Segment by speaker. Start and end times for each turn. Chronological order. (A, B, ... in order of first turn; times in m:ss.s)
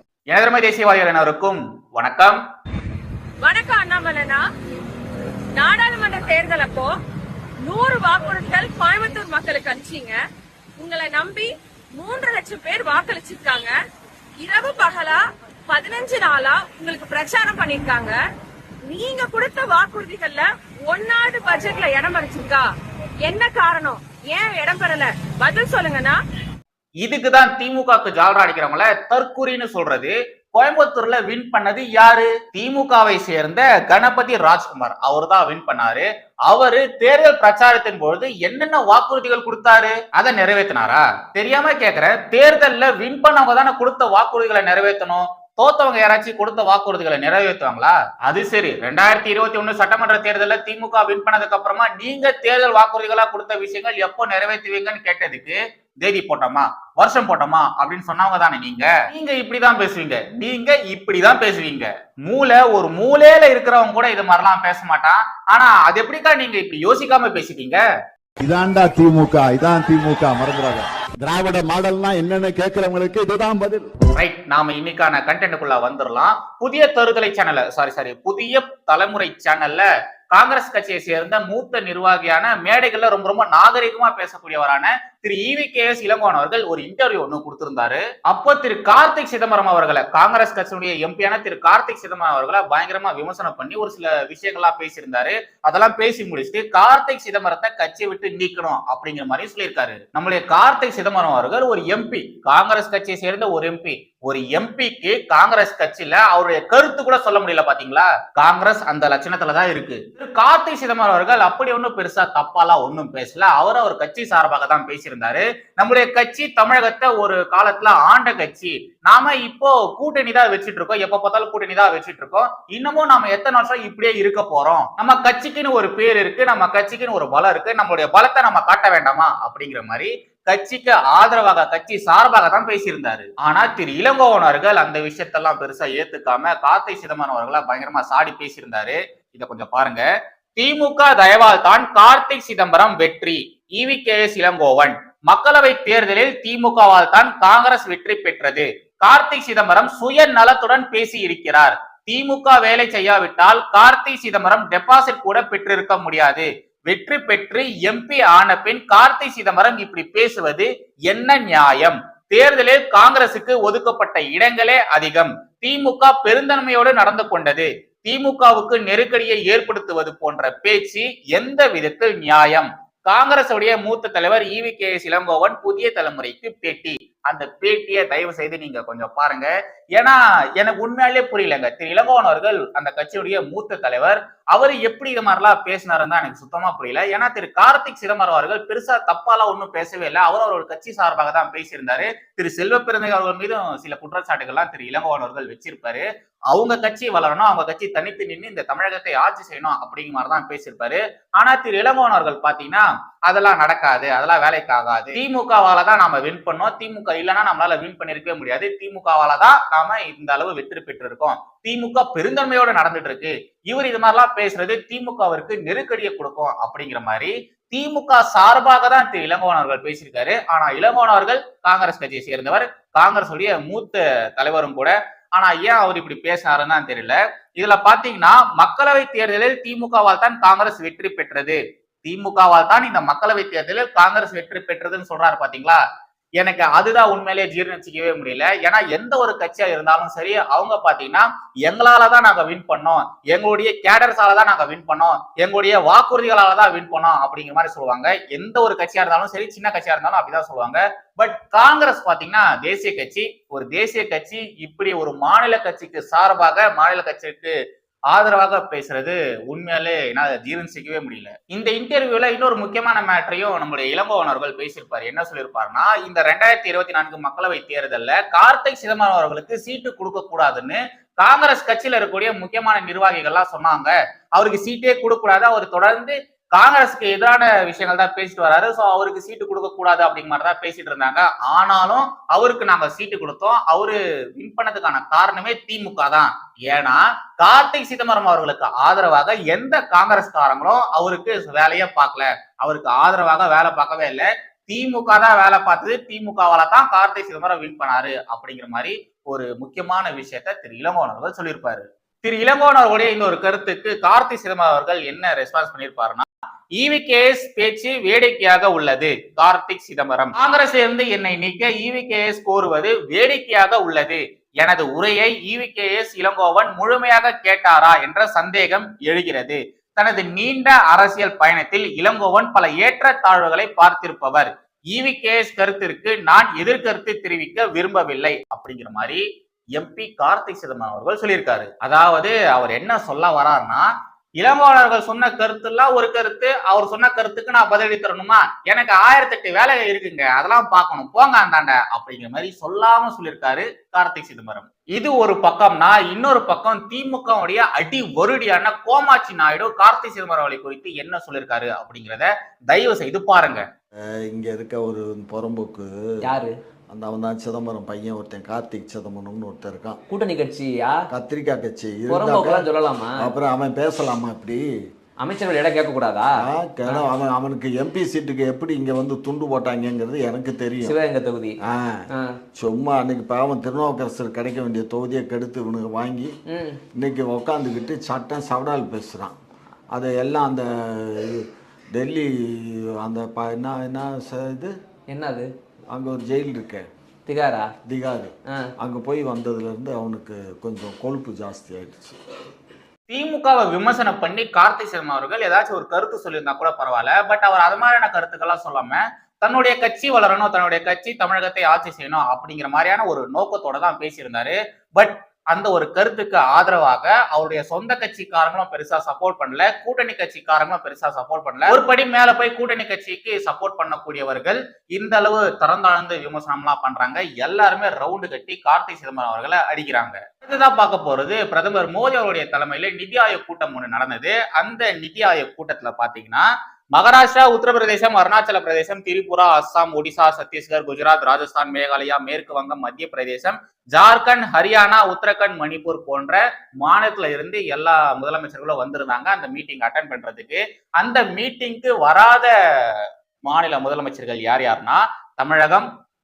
0:00.3-0:02.4 A
0:03.4-0:04.4 B
0:05.6-0:06.9 B
0:07.6-0:10.2 B
0:10.8-0:13.7 B
0:14.4-0:18.2 B
0:18.9-0:22.7 B
0:23.2-0:26.2 B
0:27.0-1:07.8 A
1:08.4-1:13.9 C
1:14.2-2:20.0 A
2:20.6-3:55.8 A
3:56.4-4:17.5 A
4:18.1-5:29.2 A
5:29.8-5:53.6 A
5:54.3-5:56.3 D
5:56.2-5:56.5 E
5:56.9-6:00.0 D
6:00.1-6:01.1 E
6:01.1-6:02.6 D
6:02.1-6:03.3 E
6:03.2-6:04.6 D
6:05.2-6:07.0 E
6:06.4-6:11.0 D
6:10.8-6:11.6 E
6:11.6-6:12.0 D
6:12.1-6:12.4 E
6:12.6-6:16.3 D
6:16.5-6:16.8 E
6:16.9-6:19.4 D
6:19.9-6:24.7 D
6:25.1-6:25.5 E
6:25.9-6:26.8 D
6:27.2-6:27.7 E
6:27.8-6:32.2 D
6:33.1-7:25.9 A